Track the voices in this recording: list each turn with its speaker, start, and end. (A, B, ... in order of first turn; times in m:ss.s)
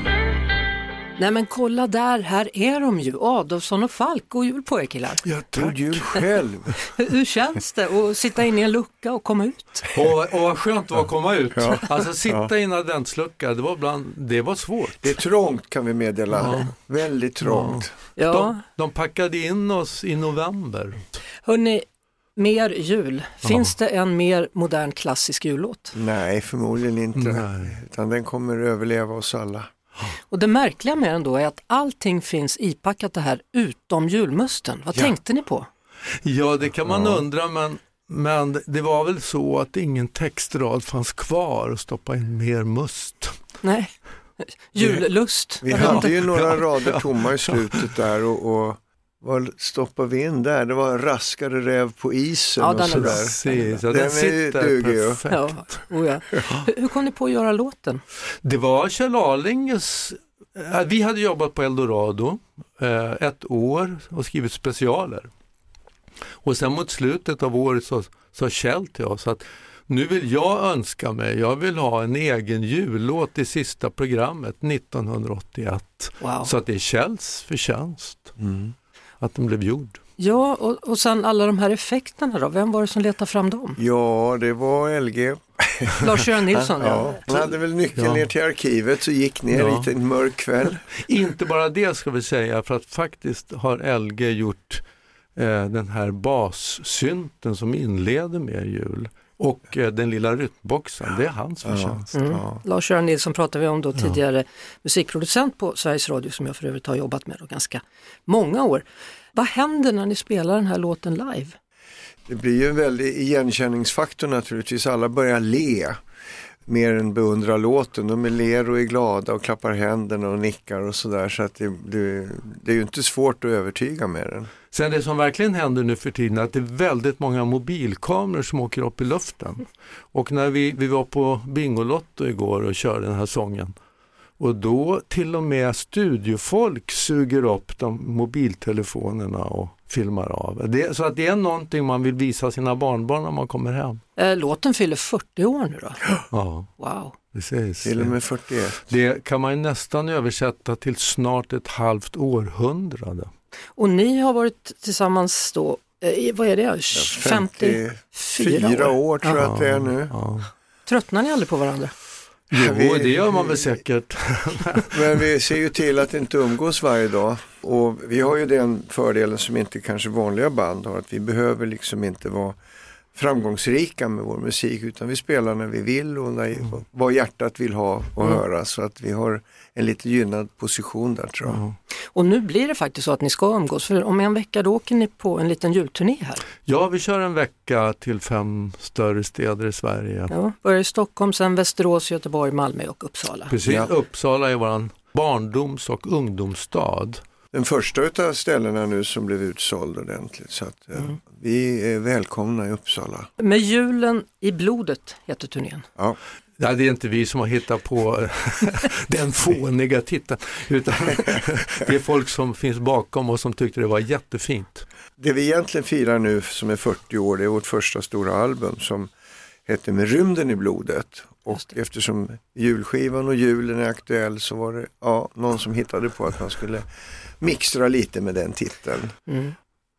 0:01.2-0:05.2 A
0:05.2-0:06.1 B
0:05.5-0:06.8 C
0:07.0-0:09.9 A
0:09.9-0:15.1 B
0:11.6-0:12.5 C
0:15.0-0:17.9 C
0:16.4-0:16.7 B
0:17.4-0:21.2 B
0:18.2-0:18.6 A
0:21.4-0:21.8 A
0:22.4-0:26.0 A
0:25.9-0:29.7 C
0:27.2-0:27.7 B
0:30.3-0:35.7 A
0:36.2-0:43.4 B
0:36.9-0:37.2 C
0:43.6-0:43.9 A
0:44.7-0:46.1 A
0:45.6-0:55.2 C
0:45.7-0:47.8 B
0:52.6-0:53.8 A
0:52.8-0:55.8 B
0:55.3-0:58.0 A
0:58.4-1:05.3 B
1:06.4-1:18.3 B
1:16.2-1:16.5 A
1:18.4-1:18.7 C
1:19.2-1:20.0 B
1:20.2-1:23.8 A
1:23.8-1:30.9 C
1:26.0-1:27.4 A
1:28.0-1:28.3 B
1:29.5-1:29.9 B
1:31.0-1:34.8 B
1:35.4-1:42.1 B
1:41.6-1:42.6 C
1:42.1-1:51.6 A
1:52.3-1:56.0 C
1:56.7-2:04.5 C
2:04.7-2:13.7 B
2:14.4-2:24.0 B
2:24.2-2:26.1 A
2:26.3-2:26.7 B
2:26.8-2:27.1 A
2:27.3-2:28.2 B
2:27.8-2:28.9 C
2:28.8-2:33.3 B
2:33.8-2:39.4 A
2:36.9-2:40.1 C
2:39.4-2:40.5 B
2:40.9-2:41.9 A
2:42.5-2:45.0 B
2:42.5-2:43.7 C
2:44.9-2:52.6 C
2:53.1-3:01.6 C
3:01.5-3:01.7 B
3:02.1-3:06.4 A
3:06.7-3:10.3 B
3:10.3-3:13.5 A
3:13.5-3:17.2 B
3:13.6-3:13.9 C
3:17.5-3:23.3 C
3:23.4-3:25.8 A
3:26.6-3:34.8 B
3:35.2-3:39.1 C
3:39.7-3:46.9 C
3:47.4-3:49.1 C
3:49.3-3:49.5 A